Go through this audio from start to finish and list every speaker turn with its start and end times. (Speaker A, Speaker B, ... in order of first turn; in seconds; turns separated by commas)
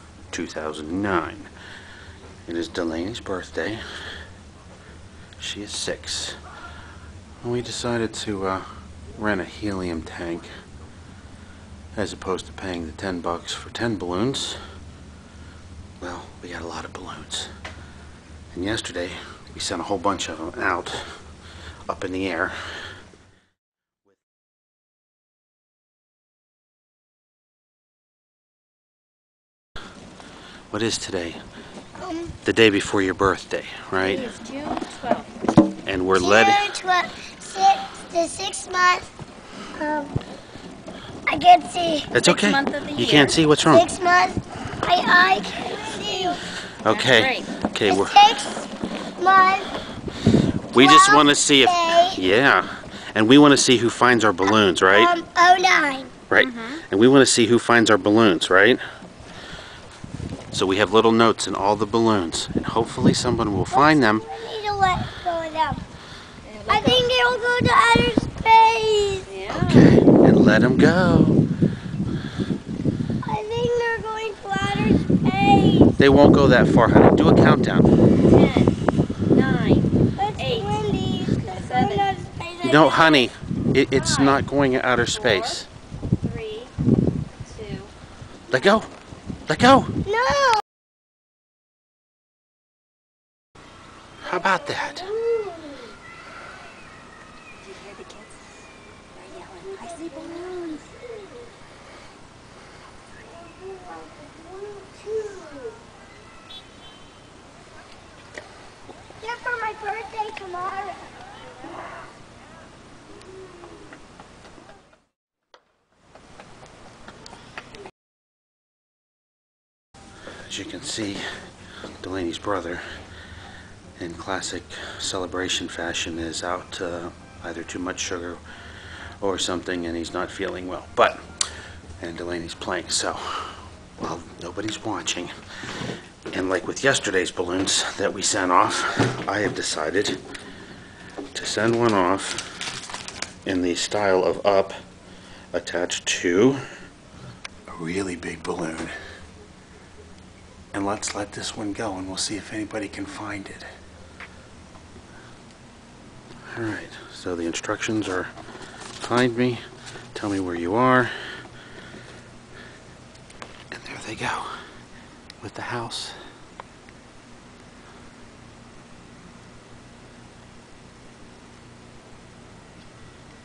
Speaker A: 0.3-1.5, Speaker A: 2.5-3.8, Speaker A: 5.4-6.4, Speaker A: 7.4-10.5, Speaker A: 11.9-14.6, Speaker A: 16.0-17.5, Speaker A: 18.5-21.2, Speaker A: 21.9-22.6, Speaker A: 30.7-31.4, Speaker B: 32.0-32.3, Speaker A: 32.4-34.3, Speaker C: 34.0-35.3, Speaker A: 35.8-36.8, Speaker B: 36.1-39.1, Speaker B: 39.8-40.2, Speaker B: 41.2-42.1, Speaker A: 42.1-43.9, Speaker C: 42.2-43.4, Speaker B: 43.7-46.4, Speaker C: 45.6-47.5, Speaker A: 46.7-48.4, Speaker B: 47.9-49.7, Speaker A: 50.7-55.1, Speaker B: 50.7-52.2, Speaker B: 54.9-56.1, Speaker A: 56.3-58.8, Speaker C: 56.4-56.8, Speaker A: 60.5-64.2, Speaker B: 63.7-65.8, Speaker C: 66.4-67.1, Speaker B: 66.7-69.3, Speaker C: 69.3-70.0, Speaker A: 69.5-71.4, Speaker B: 73.2-76.0, Speaker A: 76.0-77.9, Speaker C: 78.2-82.1, Speaker B: 80.2-83.3, Speaker A: 82.6-85.7, Speaker C: 84.0-84.4, Speaker C: 85.1-85.6, Speaker C: 86.2-86.7, Speaker C: 87.4-87.9, Speaker A: 88.5-88.9, Speaker A: 89.5-89.9, Speaker B: 90.0-90.6, Speaker A: 94.2-95.1, Speaker B: 94.2-95.9, Speaker C: 97.6-98.6, Speaker C: 99.1-100.8, Speaker B: 99.6-101.3, Speaker B: 103.4-105.8, Speaker B: 109.2-111.1, Speaker A: 120.5-121.2, Speaker A: 122.0-122.8, Speaker A: 124.0-128.4, Speaker A: 129.2-131.3, Speaker A: 132.0-135.3, Speaker A: 136.3-140.2, Speaker A: 141.3-142.6, Speaker A: 143.4-144.8, Speaker A: 145.5-146.6, Speaker A: 147.7-148.9, Speaker A: 150.7-153.7, Speaker A: 156.5-158.3, Speaker A: 159.0-161.1, Speaker A: 163.7-164.6, Speaker A: 165.4-166.2